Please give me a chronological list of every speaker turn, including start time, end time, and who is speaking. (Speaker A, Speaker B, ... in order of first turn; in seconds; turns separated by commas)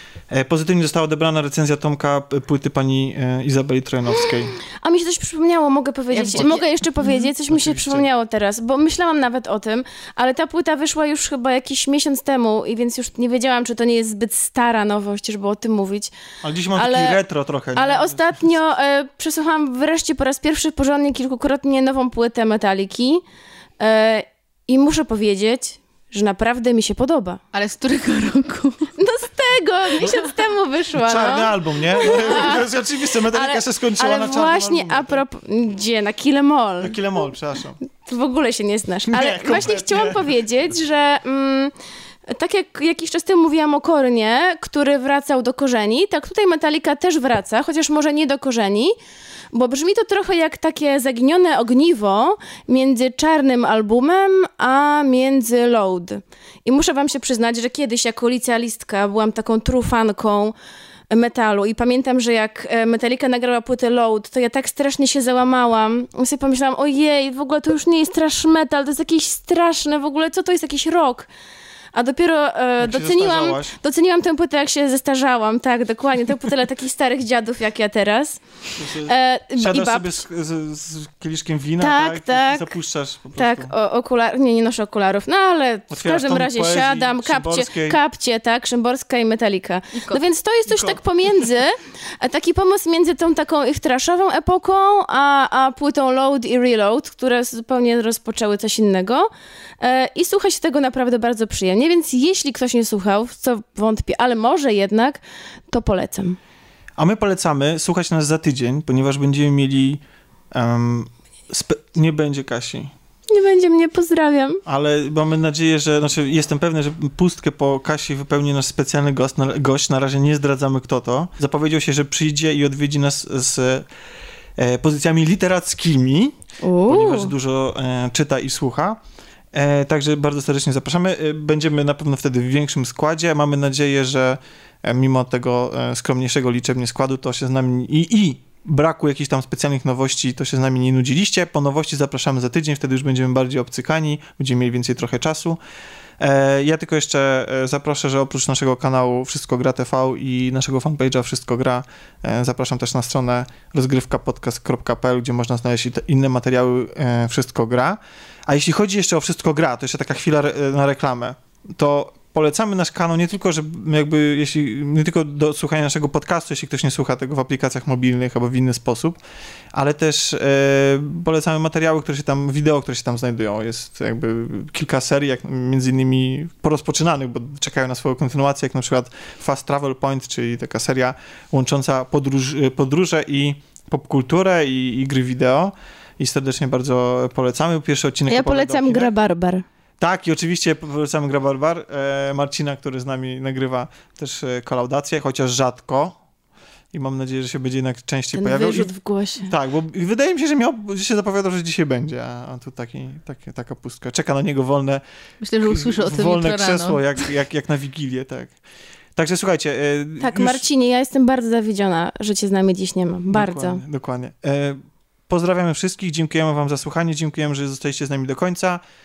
Speaker A: 0.3-4.5, Speaker B: 4.8-16.1, Speaker C: 6.1-7.2, Speaker A: 6.3-6.6, Speaker A: 7.5-8.1, Speaker A: 16.4-18.3, Speaker B: 16.7-17.2, Speaker B: 17.7-23.2, Speaker B: 23.8-27.4, Speaker C: 27.5-28.9, Speaker B: 29.0-32.7, Speaker A: 30.9-35.2, Speaker B: 33.3-37.0, Speaker A: 36.8-37.8, Speaker B: 38.0-41.7, Speaker A: 39.1-40.3, Speaker B: 42.2-48.9, Speaker B: 49.5-60.5, Speaker B: 61.1-71.3, Speaker B: 71.9-78.4, Speaker A: 72.8-73.7, Speaker A: 78.8-83.7, Speaker B: 79.0-80.2, Speaker B: 81.8-82.7, Speaker B: 83.3-99.3, Speaker A: 85.9-88.0, Speaker C: 89.9-90.2, Speaker A: 90.7-91.0, Speaker B: 99.8-105.2, Speaker B: 105.7-106.4, Speaker A: 107.0-110.0, Speaker A: 110.5-112.9, Speaker B: 113.3-114.6, Speaker A: 114.7-123.8, Speaker A: 124.6-129.0, Speaker B: 126.6-127.3, Speaker A: 129.5-145.6, Speaker A: 146.2-169.2, Speaker A: 169.7-189.1, Speaker B: 188.3-189.6, Speaker A: 190.0-196.2, Speaker A: 196.9-205.0, Speaker B: 198.3-199.5, Speaker C: 205.4-207.2, Speaker A: 205.6-208.5, Speaker A: 209.2-210.6, Speaker B: 210.2-213.8, Speaker A: 213.3-218.8